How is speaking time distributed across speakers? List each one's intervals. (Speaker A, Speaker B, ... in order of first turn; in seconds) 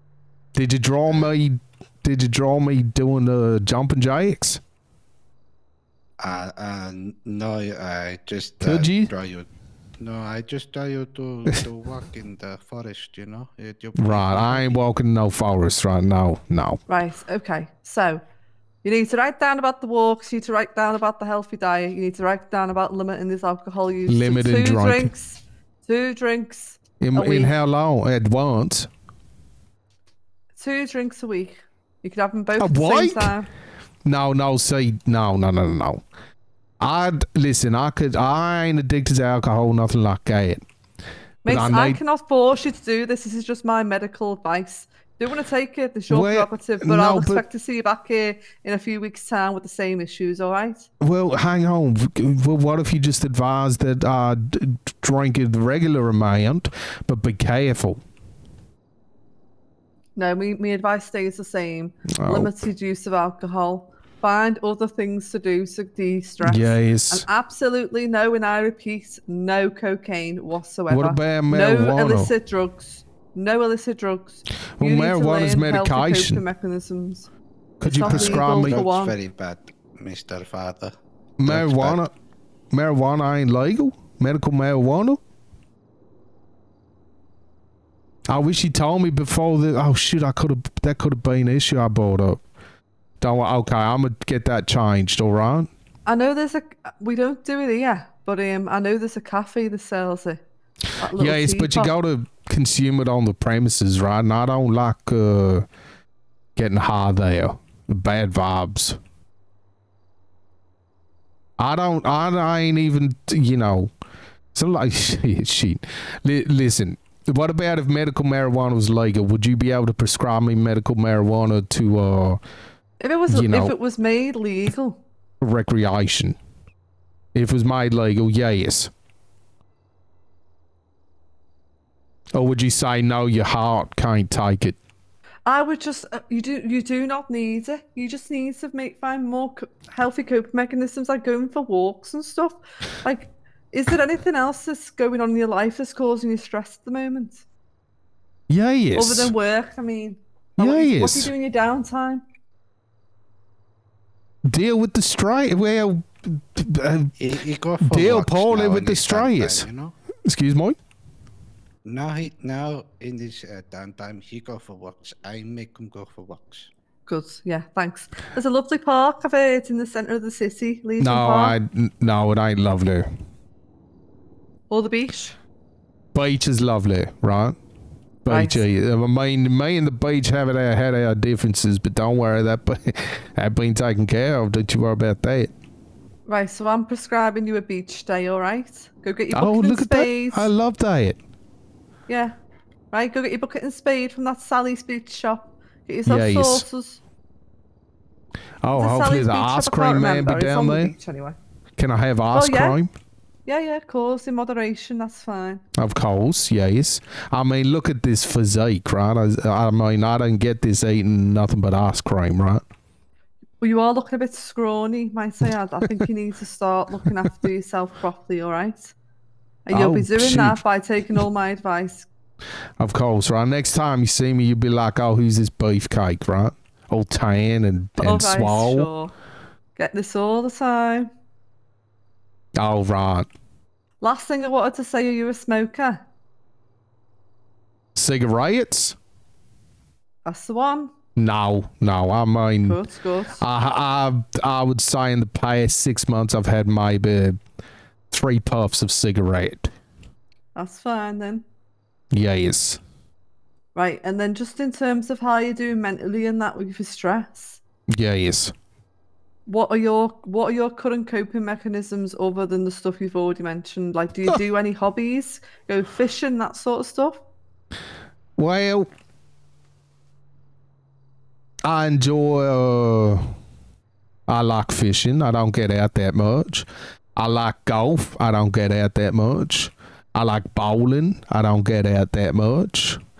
Speaker A: 0.6-4.6, 8.6-9.1, 14.0-16.8, 24.1-25.1, 27.0-28.9, 32.6-33.3, 34.1-36.0, 36.8-40.6, 41.5-42.0, 46.1-47.4, 51.0-58.0, 62.2-62.5, 66.4-67.3, 70.9-72.3, 74.8-76.5, 77.8-78.8, 81.4-82.1, 82.7-85.2, 88.3-92.4, 93.2-95.7, 101.2-105.7, 106.6-109.0, 111.6-113.9, 114.5-122.4, 123.3-123.7, 125.4-126.4, 127.3-128.9, 132.3-134.8, 148.5-149.3, 150.6-151.3, 154.5-157.1, 157.8-159.7, 160.3-160.8, 171.0-173.1, 176.1-177.6, 178.2-185.5, 189.3-191.2, 196.1-196.7, 198.6-200.9, 201.8-202.9, 205.8-212.6, 219.7-220.6, 222.8-228.9, 232.6-233.3, 238.0-238.9, 241.2-242.8, 243.4-247.4, 248.1-249.7, 252.1-252.8, 257.9-258.5, 268.4-268.9, 271.6-273.3, 274.3-283.0
Speaker B: 6.2-9.5, 10.0-14.8, 78.0-80.9, 81.4-82.0, 157.2-159.9, 161.8-166.7
Speaker C: 16.9-18.2, 18.8-27.6, 30.5-33.5, 41.4-50.9, 60.2-77.3, 77.8-79.2, 96.1-100.4, 101.0-101.9, 123.0-125.0, 135.5-147.4, 148.9-152.2, 167.1-171.6, 174.7-175.4, 178.3-178.7, 186.3-190.5, 192.1-192.3, 192.9-197.0, 198.7-201.4, 202.3-202.8, 203.4-205.6, 213.6-218.9, 219.7-222.1, 228.0-229.1, 229.8-231.1, 234.0-236.0, 240.2-240.9, 242.6-243.4, 250.6-251.4, 253.8-257.6, 259.5-267.2